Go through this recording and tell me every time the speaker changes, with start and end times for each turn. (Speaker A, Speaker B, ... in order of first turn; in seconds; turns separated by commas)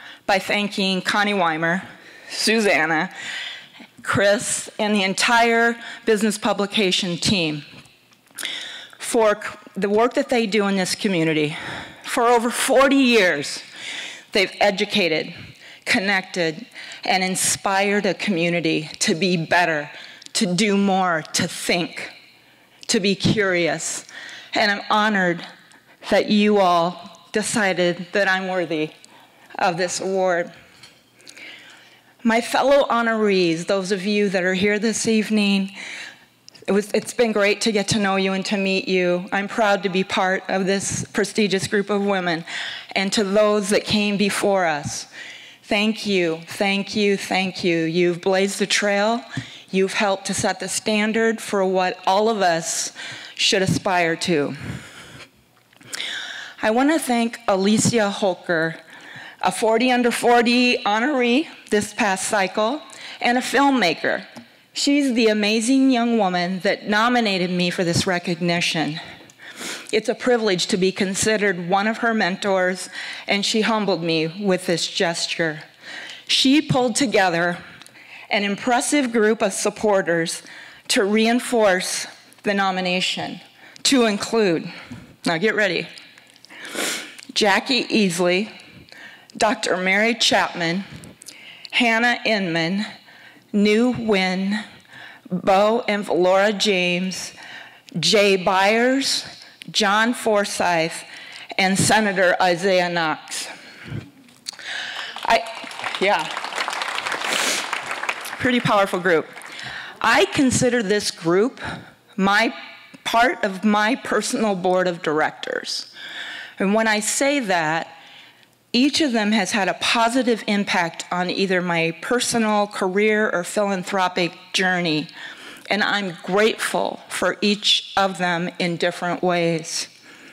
Speaker A: 0.3-3.1, Speaker A: 4.0-7.6, Speaker A: 9.0-13.6, Speaker A: 14.3-15.3, Speaker A: 15.8-22.1, Speaker A: 22.9-25.4, Speaker A: 26.0-28.9, Speaker A: 29.6-30.5, Speaker A: 32.2-35.7, Speaker A: 36.7-45.1, Speaker A: 45.6-54.6, Speaker A: 56.6-58.8, Speaker A: 59.4-69.0, Speaker A: 69.9-75.6, Speaker A: 76.3-77.6, Speaker A: 78.3-84.7, Speaker A: 85.2-85.9, Speaker A: 87.3-88.5, Speaker A: 89.4-90.8, Speaker A: 91.7-92.9, Speaker A: 93.5-94.6, Speaker A: 95.3-97.3, Speaker A: 98.0-103.5, Speaker A: 105.2-106.3, Speaker A: 108.4-109.3, Speaker A: 110.0-111.6, Speaker A: 112.2-115.9, Speaker A: 116.6-117.9, Speaker A: 118.7-125.1, Speaker A: 125.7-129.9